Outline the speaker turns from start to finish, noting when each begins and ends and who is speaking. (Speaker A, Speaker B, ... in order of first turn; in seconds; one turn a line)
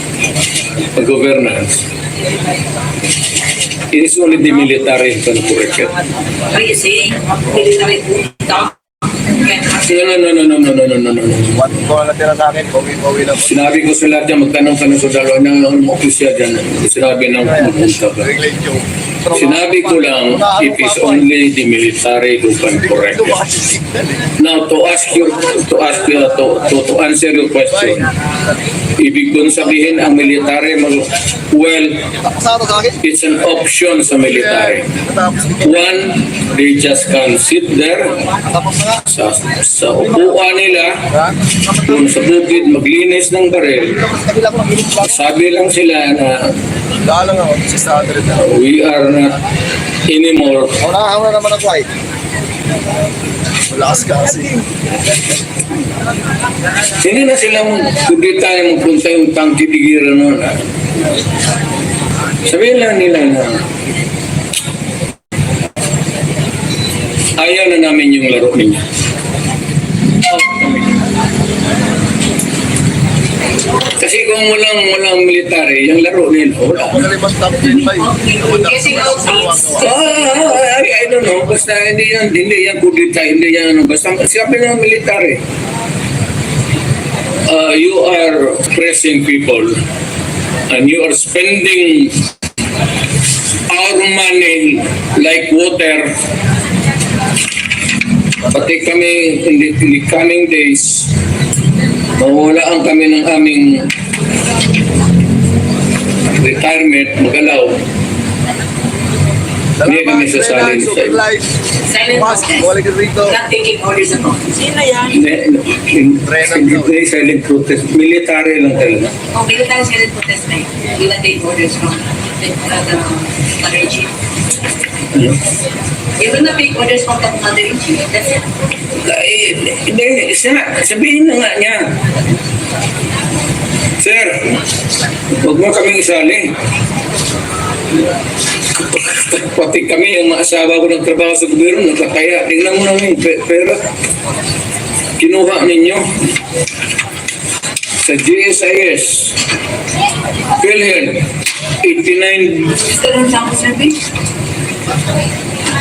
Speaker A: 0.9-1.8
Speaker A: 3.9-5.9
Speaker B: 6.5-10.0
Speaker A: 9.8-11.7
Speaker C: 11.6-13.6
Speaker A: 13.4-18.3
Speaker C: 18.2-21.2
Speaker A: 19.3-23.4
Speaker C: 22.8-24.3
Speaker A: 24.4-28.1
Speaker A: 29.0-32.1
Speaker C: 32.2-33.0
Speaker A: 33.0-34.9
Speaker C: 34.2-35.8
Speaker A: 35.6-38.2
Speaker C: 38.4-39.0
Speaker A: 39.0-41.1
Speaker C: 41.0-42.1
Speaker A: 41.8-44.0
Speaker C: 43.8-45.2
Speaker A: 45.0-46.5
Speaker C: 47.0-48.5
Speaker A: 48.4-49.4
Speaker A: 50.1-50.8
Speaker C: 50.8-51.9
Speaker C: 53.7-54.7
Speaker A: 57.0-60.6
Speaker A: 62.4-63.6
Speaker A: 67.4-68.8
Speaker A: 70.4-70.8
Speaker A: 74.0-77.1
Speaker C: 76.8-79.9
Speaker B: 77.6-80.1
Speaker A: 79.8-85.4
Speaker A: 87.5-89.8
Speaker A: 90.7-92.3
Speaker A: 93.7-96.2
Speaker A: 98.5-101.1
Speaker A: 102.2-103.9
Speaker A: 106.3-107.8
Speaker C: 109.8-111.5
Speaker A: 109.8-111.2
Speaker B: 111.9-112.7
Speaker C: 112.1-113.4
Speaker B: 113.2-114.7
Speaker A: 115.0-119.1
Speaker C: 116.2-116.9
Speaker B: 119.3-124.1
Speaker B: 126.2-128.4
Speaker A: 128.9-132.0
Speaker A: 134.0-134.6
Speaker A: 135.3-136.5
Speaker A: 138.8-143.9
Speaker A: 145.2-146.1
Speaker A: 148.0-149.4
Speaker A: 150.6-151.3
Speaker A: 151.8-152.8
Speaker B: 152.8-154.0